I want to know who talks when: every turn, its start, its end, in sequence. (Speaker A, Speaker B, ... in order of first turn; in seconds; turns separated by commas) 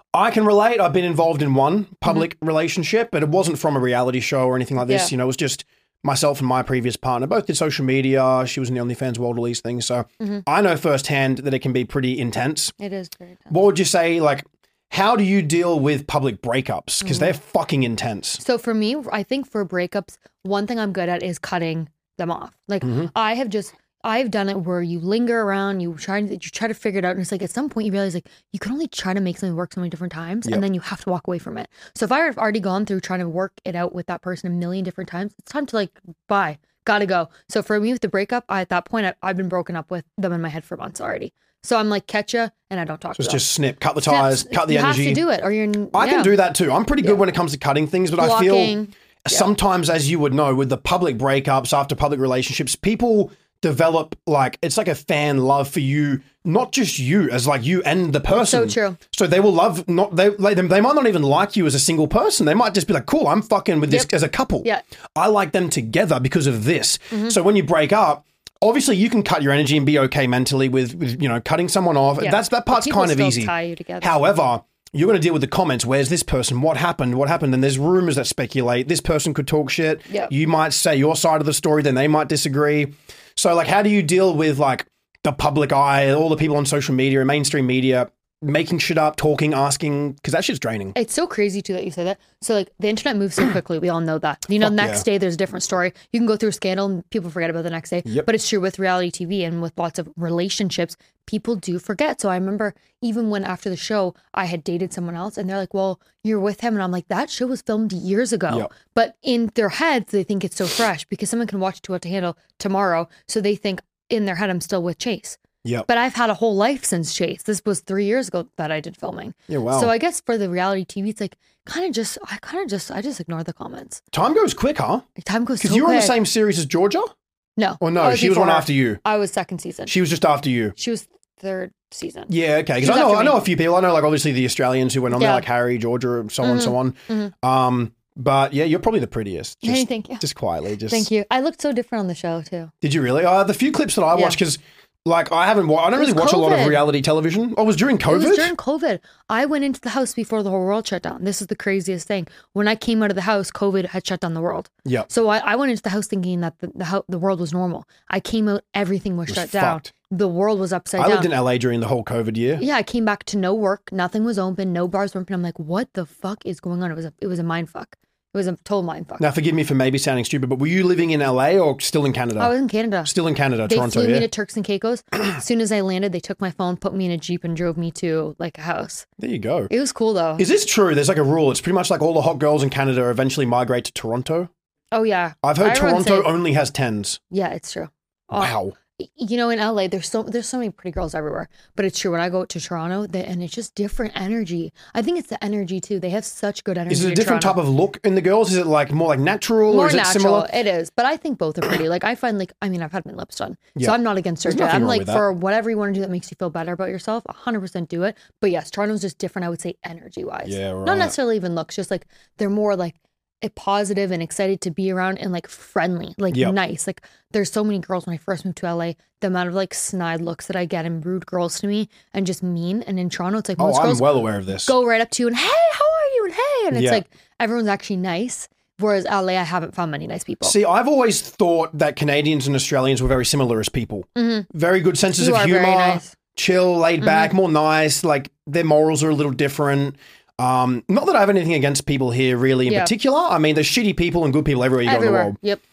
Speaker A: 0.1-12.7, Speaker B: 4.8-5.1, Speaker B: 12.8-13.6, Speaker A: 13.5-18.4, Speaker B: 17.0-17.4, Speaker B: 18.4-43.4, Speaker A: 22.8-23.1, Speaker A: 43.2-45.2, Speaker B: 44.0-46.3, Speaker A: 45.9-91.0, Speaker B: 48.2-49.5, Speaker B: 58.3-59.0, Speaker B: 67.1-67.4, Speaker B: 72.2-74.1, Speaker B: 90.9-124.0, Speaker A: 94.6-95.0, Speaker A: 119.5-119.9, Speaker A: 124.1-125.1, Speaker B: 125.2-126.2, Speaker A: 125.6-127.1, Speaker B: 127.6-129.9, Speaker A: 127.8-129.0, Speaker A: 129.9-130.7, Speaker B: 130.8-133.5, Speaker A: 132.3-141.1, Speaker B: 135.1-135.4, Speaker B: 136.4-137.3, Speaker B: 139.6-140.2, Speaker B: 140.9-142.7, Speaker A: 142.8-148.5, Speaker B: 145.9-146.8, Speaker B: 148.1-161.3, Speaker A: 159.3-159.9, Speaker A: 161.0-162.6, Speaker B: 162.6-169.2, Speaker A: 169.2-172.5, Speaker B: 172.4-173.1, Speaker A: 173.0-174.3, Speaker B: 173.7-179.1, Speaker A: 179.2-179.7, Speaker B: 179.7-180.4, Speaker A: 180.4-184.5, Speaker B: 184.9-186.3, Speaker A: 185.4-187.2, Speaker B: 187.3-197.6, Speaker A: 188.3-188.7, Speaker A: 196.9-200.5, Speaker B: 199.7-230.6, Speaker A: 203.8-205.2, Speaker A: 210.4-211.2, Speaker A: 216.3-216.6, Speaker A: 223.6-224.7, Speaker A: 226.7-227.0, Speaker A: 230.4-245.4, Speaker B: 234.2-234.5, Speaker B: 235.2-236.1, Speaker B: 237.0-237.3, Speaker B: 244.8-245.6